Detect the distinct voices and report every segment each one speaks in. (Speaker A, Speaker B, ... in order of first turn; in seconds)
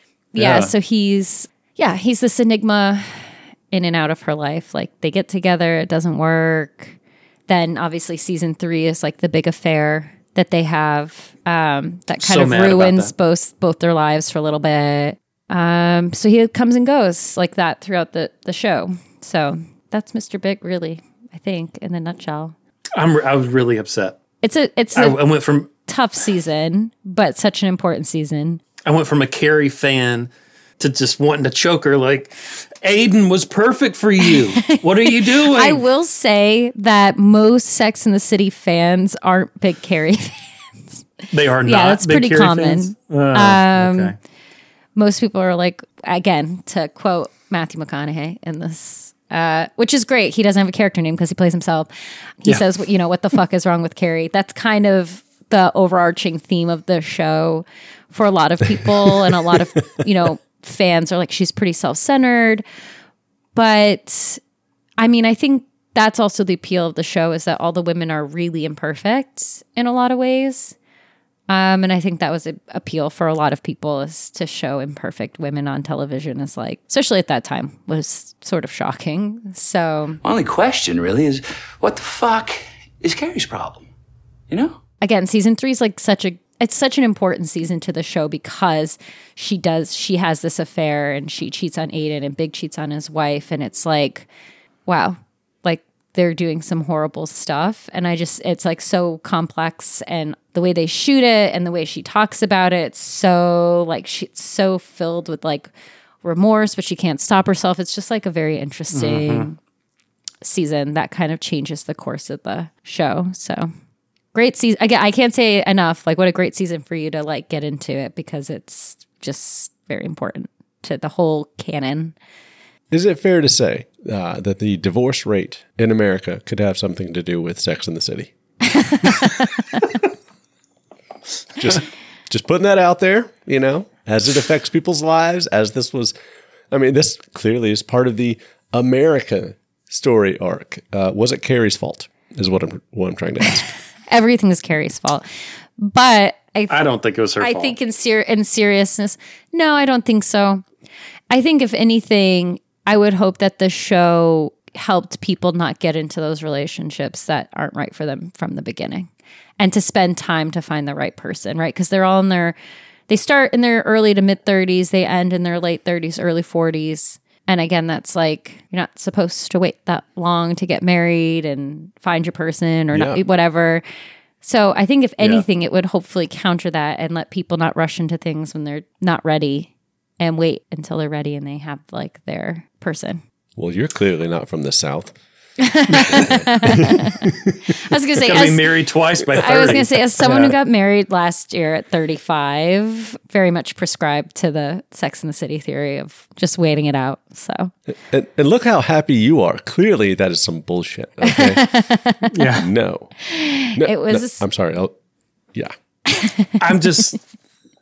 Speaker A: 0.3-7.0, 7.5-22.5, 24.4-25.2, 25.9-28.6, 34.2-41.0, 41.6-44.1, 44.9-51.9, 52.4-62.6, 63.5-64.4, 65.0-70.7, 71.5-80.2, 85.0-94.3, 94.9-105.7, 106.2-109.6, 110.4-113.7, 114.3-122.1, 128.7-129.8, 144.1-145.2, 145.8-146.8, 147.4-150.6, 151.3-162.6, 163.1-173.8, 174.4-183.2, 185.6-187.1, 187.8-188.7, 189.3-197.7, 201.2-202.4, 203.3-204.4, 206.1-206.5
Speaker B: 0.3-0.7, 12.2-13.1, 22.9-24.2, 24.9-25.7, 28.9-35.8, 41.3-44.1, 108.9-109.5, 146.7-147.8, 175.2-175.4, 185.9-186.3, 188.2-190.5, 202.3-202.7, 206.6-207.2
Speaker C: 58.8-59.4, 122.9-128.3, 131.6-136.1, 136.7-143.7, 172.9-173.2, 183.5-185.2, 186.1-187.7, 189.4-189.8, 197.9-201.7, 202.6-203.1, 203.7-204.9
Speaker D: 80.2-83.9, 84.5-84.8